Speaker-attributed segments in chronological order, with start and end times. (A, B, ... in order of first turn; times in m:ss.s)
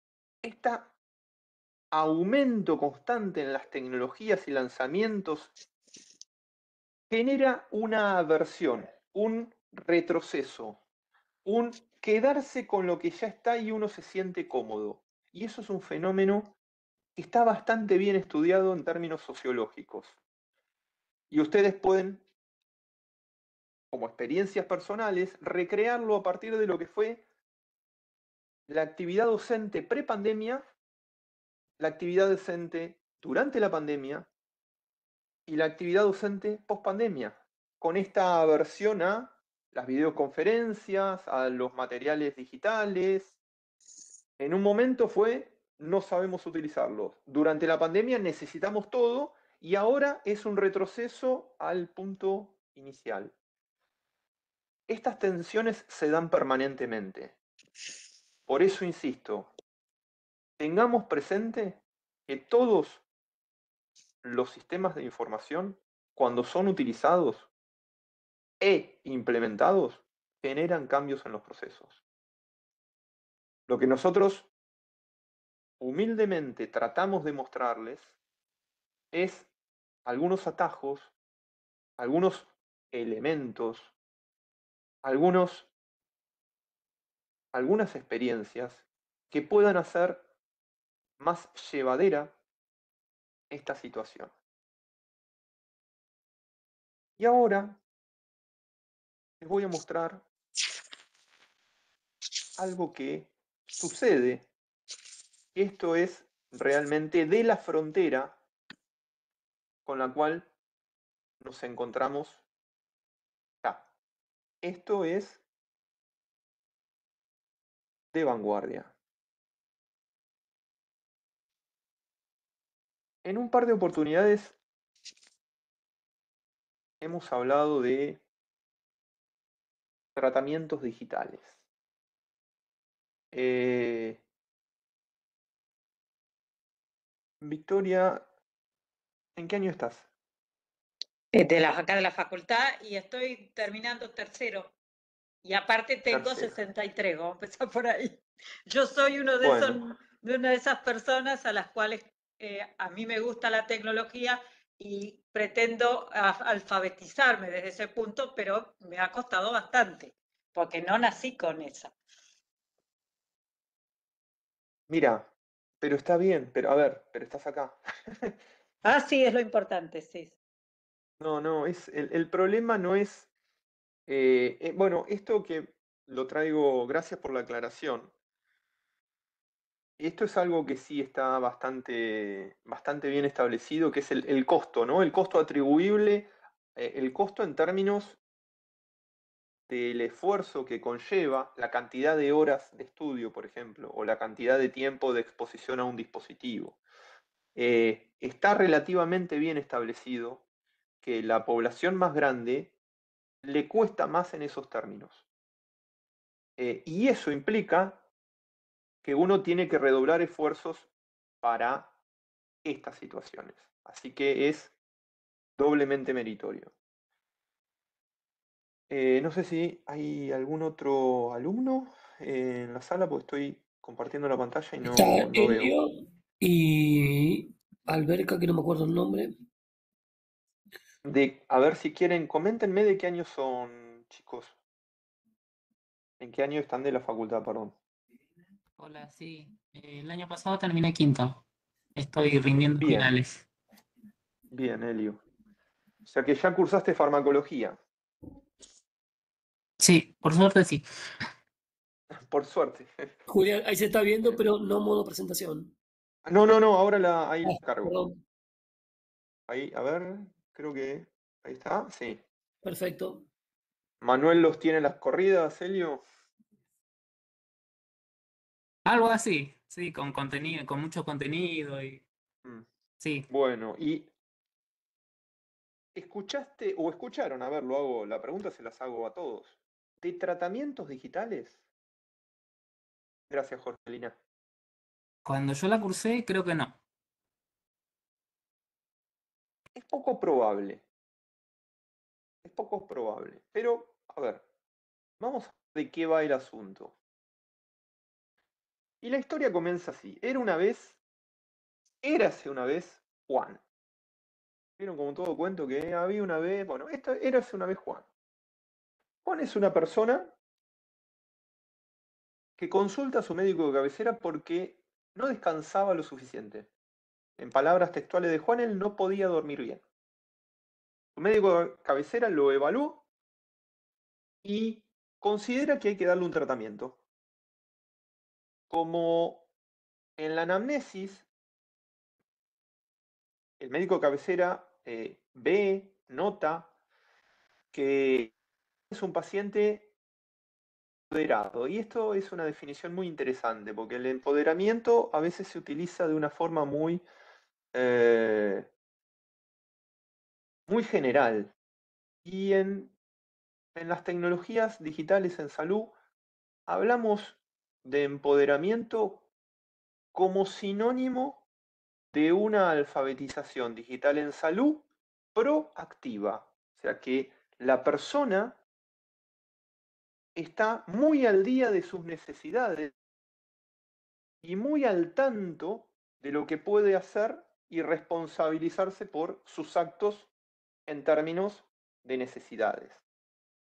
0:00.4-0:00.9 A
0:01.9-0:05.5 A
0:07.1-0:10.8 A
0:11.4-0:16.6 A
0:17.2-0:20.2 A
0:21.3-0:22.2 A
0:23.9-0:27.2 A
0:28.7-0:30.6 A
0:31.8-0:34.3 A
0:35.5-0:43.4 A
0:44.4-0:53.3 A
0:54.9-0:57.4 A
0:58.5-0:59.5 A
1:00.6-1:03.0 A
1:04.2-1:07.5 A
1:08.6-1:12.0 A
1:13.7-1:14.5 A
1:15.8-1:18.1 A
1:19.1-1:19.5 A
1:20.0-1:21.1 A
1:22.0-1:23.9 A
1:25.0-1:25.7 A
1:27.5-1:30.3 A
1:31.2-1:32.4 A
1:33.5-1:34.3 A
1:37.2-1:37.8 A
1:39.4-1:40.2 A
1:42.6-1:44.5 A
1:45.6-1:48.4 A
1:49.8-1:50.5 A
1:51.4-1:52.4 A
1:54.6-1:55.4 A
1:58.1-1:58.9 A
2:03.2-2:04.6 A
2:07.0-2:08.2 A
2:10.1-2:11.6 A
2:13.3-2:14.2 A
2:17.4-2:18.2 A
2:19.4-2:20.1 A
2:21.3-2:24.8 B
2:25.4-2:41.9 B
2:26.1-2:26.6 A
2:29.4-2:29.8 A
2:44.9-2:45.3 A
2:45.8-2:48.3 A
2:48.8-2:50.4 B
2:51.2-2:53.3 A
2:54.1-2:58.1 A
3:00.0-3:08.2 A
3:09.7-3:16.8 A
3:17.6-3:20.4 A
3:21.0-3:22.8 A
3:23.4-3:25.2 A
3:26.6-3:28.0 A
3:29.0-3:30.9 A
3:31.4-3:31.9 A
3:32.6-3:34.8 A
3:35.6-3:36.7 A
3:38.9-3:45.7 A
3:44.8-3:49.3 C
3:51.0-3:54.6 A
3:56.2-3:57.8 A
3:58.8-4:01.4 D
4:02.0-4:03.4 D
4:02.8-4:03.1 A
4:04.5-4:05.2 A
4:06.1-4:07.8 A
4:09.8-4:10.8 D
4:12.2-4:13.1 A
4:13.3-4:15.8 C
4:16.3-4:18.0 A
4:17.4-4:18.2 C
4:19.5-4:22.2 A
4:22.6-4:23.3 C
4:24.0-4:26.0 A
4:28.9-4:32.0 D
4:33.0-4:33.3 D
4:33.3-4:34.1 A
4:35.9-4:41.6 A
4:43.3-4:44.2 A
4:45.2-4:46.8 D
4:49.8-4:50.8 A
4:52.4-4:54.4 A
4:55.2-4:57.0 A
4:59.0-5:01.0 A
5:02.0-5:03.6 A
5:04.8-5:08.1 A
5:09.2-5:10.4 A
5:12.6-5:16.7 A
5:17.4-5:19.8 A
5:21.2-5:23.0 A
5:24.4-5:27.0 A
5:28.7-5:29.5 A
5:30.2-5:31.3 A
5:33.6-5:36.7 A
5:37.7-5:38.3 A
5:38.9-5:39.9 A
5:41.1-5:47.0 A
5:47.7-5:48.7 A
5:50.7-5:51.6 A
5:52.2-5:52.9 A
5:53.8-5:55.9 A
5:56.7-5:59.3 A
6:00.1-6:01.4 A
6:02.1-6:08.6 A
6:10.4-6:12.9 A
6:14.4-6:20.3 A
6:20.9-6:23.0 A